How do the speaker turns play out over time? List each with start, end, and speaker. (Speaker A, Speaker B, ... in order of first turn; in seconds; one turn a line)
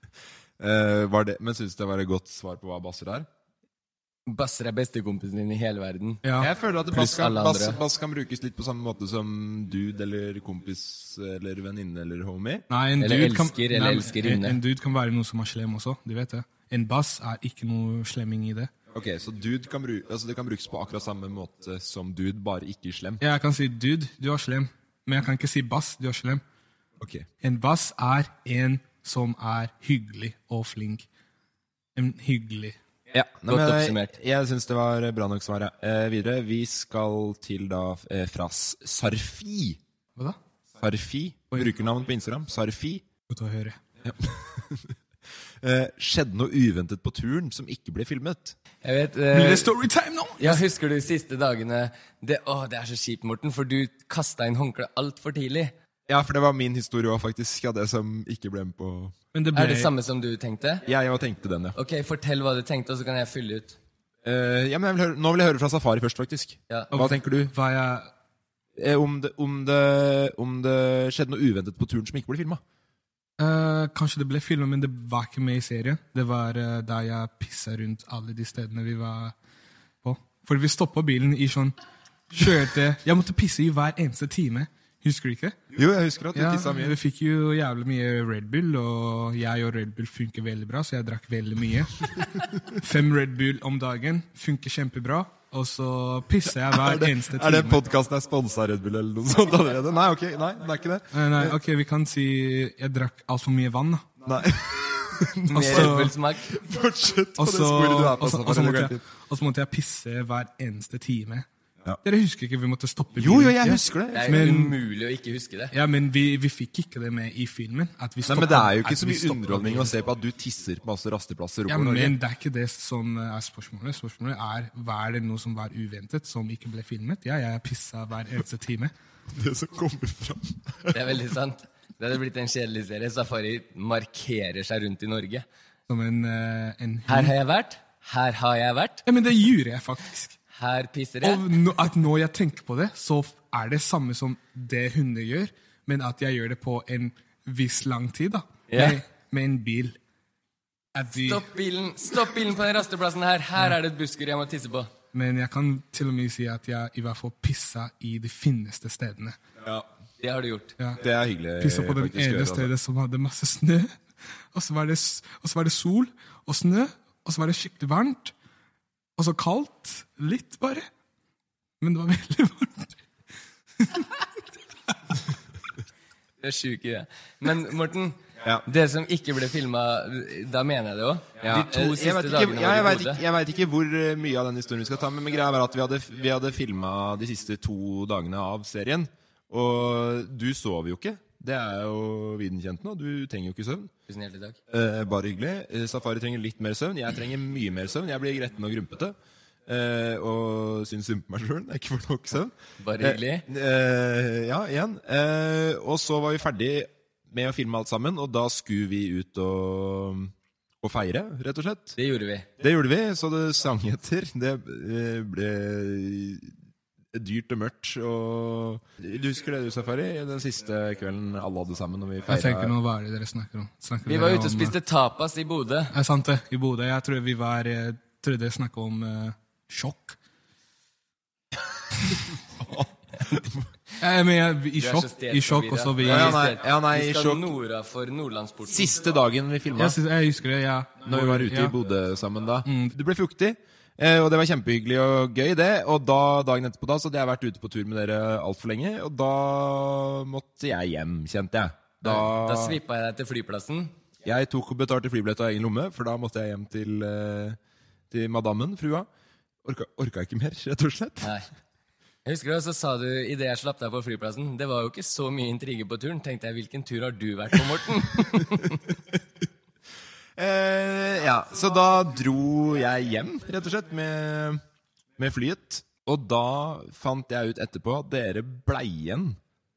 Speaker A: 0.6-3.3
Speaker B: 4.3-6.2
Speaker C: 6.2-6.5
Speaker A: 6.4-12.7
Speaker B: 6.9-7.8
Speaker C: 12.7-18.7
Speaker B: 13.0-14.6
Speaker A: 18.9-23.2
Speaker C: 23.2-26.4
Speaker A: 27.0-27.2
Speaker C: 27.4-31.1
Speaker C: 31.9-32.8
Speaker A: 33.1-39.8
Speaker B: 33.5-34.1
Speaker A: 40.8-43.0
Speaker C: 43.3-43.8
Speaker A: 44.0-44.9
Speaker A: 45.6-48.5
Speaker B: 48.8-49.7
Speaker C: 49.3-50.6
Speaker B: 50.4-55.7
Speaker A: 56.1-59.1
Speaker C: 59.3-59.9
Speaker B: 59.5-60.8
Speaker A: 60.8-61.8
Speaker B: 61.8-63.8
Speaker A: 64.2-67.5
Speaker C: 66.9-68.1
Speaker A: 68.8-72.6
Speaker C: 73.4-79.3
Speaker C: 80.0-81.8
Speaker C: 82.3-85.6
Speaker A: 85.7-87.0
Speaker C: 86.3-92.1
Speaker C: 92.7-97.8
Speaker A: 96.6-101.5
Speaker C: 101.1-104.0
Speaker A: 104.2-109.0
Speaker C: 105.5-106.1
Speaker B: 105.5-106.5
Speaker C: 107.4-111.5
Speaker C: 112.0-114.7
Speaker A: 113.2-114.4
Speaker B: 114.1-115.7
Speaker C: 115.7-119.9
Speaker A: 118.2-122.2
Speaker C: 121.7-128.9
Speaker A: 129.3-131.0
Speaker B: 130.9-135.4
Speaker C: 135.9-137.3
Speaker B: 137.1-139.0
Speaker C: 139.1-140.3
Speaker B: 140.5-141.6
Speaker C: 141.2-150.0
Speaker B: 148.7-149.0
Speaker C: 150.9-151.4
Speaker B: 151.1-154.9
Speaker C: 155.1-159.4
Speaker B: 160.2-160.7
Speaker A: 161.0-162.7
Speaker C: 161.6-163.9
Speaker C: 164.5-168.3
Speaker C: 169.2-170.9
Speaker C: 171.8-173.0
Speaker C: 173.8-174.1
Speaker B: 176.4-183.2
Speaker A: 181.4-193.9
Speaker B: 194.1-194.6
Speaker A: 194.7-199.1
Speaker A: 199.7-211.9
Speaker B: 202.8-203.4
Speaker B: 212.0-212.4
Speaker A: 212.6-216.5
Speaker A: 217.1-222.7
Speaker C: 222.3-224.7
Speaker B: 224.1-225.9
Speaker C: 225.9-230.2
Speaker A: 232.6-233.7
Speaker C: 234.0-236.4
Speaker B: 234.8-238.9
Speaker A: 236.0-237.5
Speaker A: 238.7-240.0
Speaker C: 239.8-241.8
Speaker A: 241.1-252.8
Speaker C: 242.7-242.9
Speaker B: 252.0-253.9
Speaker A: 254.2-257.6
Speaker A: 258.1-259.1
Speaker A: 259.6-261.3
Speaker B: 261.2-261.5
Speaker B: 262.2-268.8
Speaker A: 270.4-274.6
Speaker A: 275.2-279.4